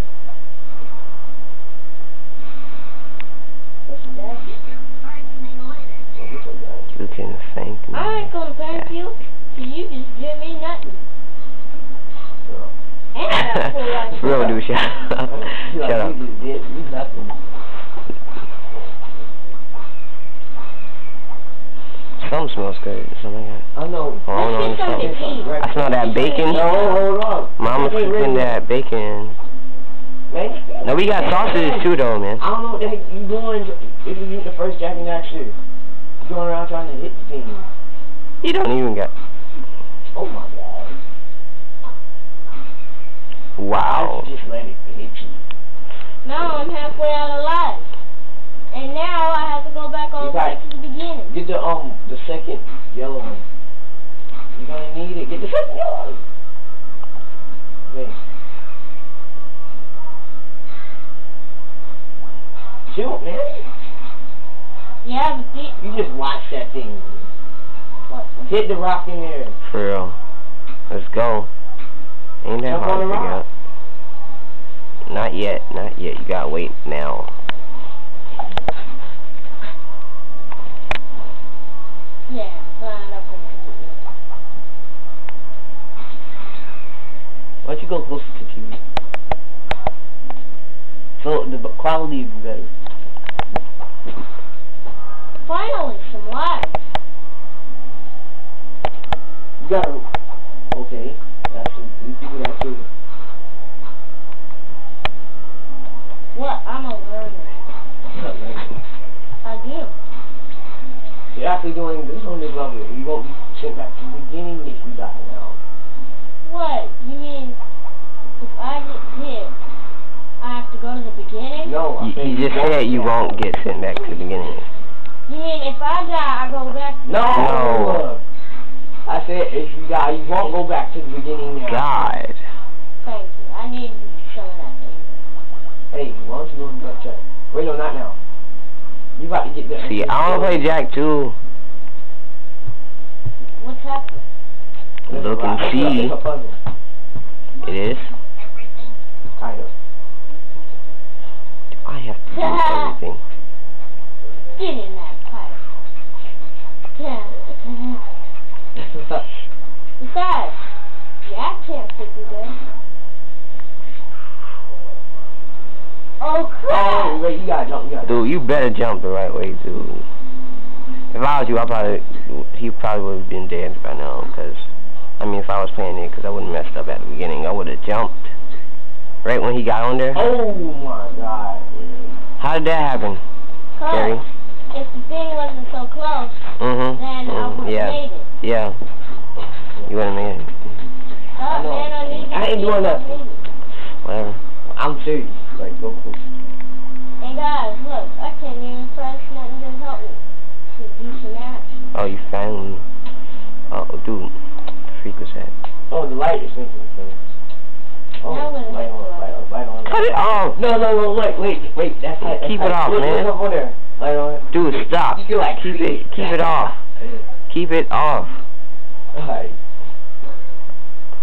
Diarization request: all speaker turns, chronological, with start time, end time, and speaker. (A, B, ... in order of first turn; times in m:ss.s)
0:03.8-0:04.5 A
0:06.1-0:07.0 B
0:06.9-0:08.9 C
0:07.9-0:11.0 A
0:12.4-0:12.7 B
0:13.1-0:14.5 A
0:13.3-0:16.2 C
0:14.1-0:14.6 B
0:15.3-0:17.4 B
0:22.2-0:23.7 C
0:23.7-0:28.6 B
0:24.2-0:26.8 C
0:24.3-0:27.1 A
0:27.6-0:29.4 C
0:30.3-0:35.6 B
0:30.8-0:32.4 C
0:36.2-0:37.6 B
0:38.4-0:39.1 C
0:40.1-0:41.0 B
0:43.6-0:44.3 C
0:43.7-0:45.4 B
0:46.2-0:48.0 A
0:48.7-0:51.4 A
0:50.2-0:50.6 B
0:51.3-0:53.4 B
0:54.5-0:56.2 B
0:57.8-0:58.2 B
1:02.9-1:03.6 B
1:05.0-1:05.8 A
1:05.8-1:07.3 B
1:08.1-1:08.7 A
1:08.5-1:09.6 B
1:09.6-1:10.2 C
1:10.9-1:11.5 C
1:12.4-1:13.5 C
1:12.6-1:13.4 B
1:15.0-1:17.3 C
1:22.3-1:24.1 A
1:27.6-1:28.8 B
1:31.2-1:32.7 B
1:35.4-1:36.8 A
1:39.6-1:40.0 B
1:40.7-1:42.9 B
1:46.3-1:47.7 A
1:48.1-1:48.8 B
1:49.4-1:49.9 A
1:51.3-1:55.6 B
1:56.4-1:57.6 A
1:58.4-1:59.5 A
2:00.4-2:01.8 A
2:01.6-2:03.4 B
2:02.0-2:04.7 C
2:05.2-2:07.8 A
2:07.0-2:08.2 B
2:07.3-2:08.1 C
2:09.0-2:11.9 B
2:11.6-2:12.4 C
2:13.0-2:15.2 A
2:15.9-2:18.2 B
2:19.2-2:20.7 B
2:19.8-2:21.4 C
2:23.6-2:24.3 A
2:25.1-2:26.2 C
2:25.1-2:26.6 B
2:27.6-2:28.1 C
2:29.4-2:29.7 B
2:31.8-2:33.2 C
2:32.3-2:33.0 A
2:34.5-2:35.6 A
2:36.9-2:38.0 A
2:38.7-2:39.3 B
2:40.0-2:40.6 A
2:41.2-2:42.6 A
2:46.2-2:47.2 A
2:46.7-2:48.3 B
2:48.0-2:50.1 C
2:51.1-2:54.7 C
2:55.2-2:58.3 C
2:59.2-3:00.3 C
3:00.1-3:02.2 B
3:02.4-3:03.2 C
3:03.7-3:08.3 A
3:03.8-3:04.2 C
3:06.6-3:08.8 C
3:09.8-3:10.6 C
3:11.3-3:13.4 A
3:11.5-3:13.2 B
3:13.9-3:14.4 C
3:14.6-3:16.3 B
3:17.2-3:21.9 A
3:21.9-3:22.8 C
3:23.7-3:24.4 C
3:24.9-3:25.5 C
3:25.9-3:27.3 B
3:28.2-3:36.7 B
3:28.2-3:29.4 A
3:29.8-3:30.6 C
3:32.2-3:33.3 C
3:34.5-3:36.8 C
3:37.5-3:38.4 C
3:39.1-3:39.6 B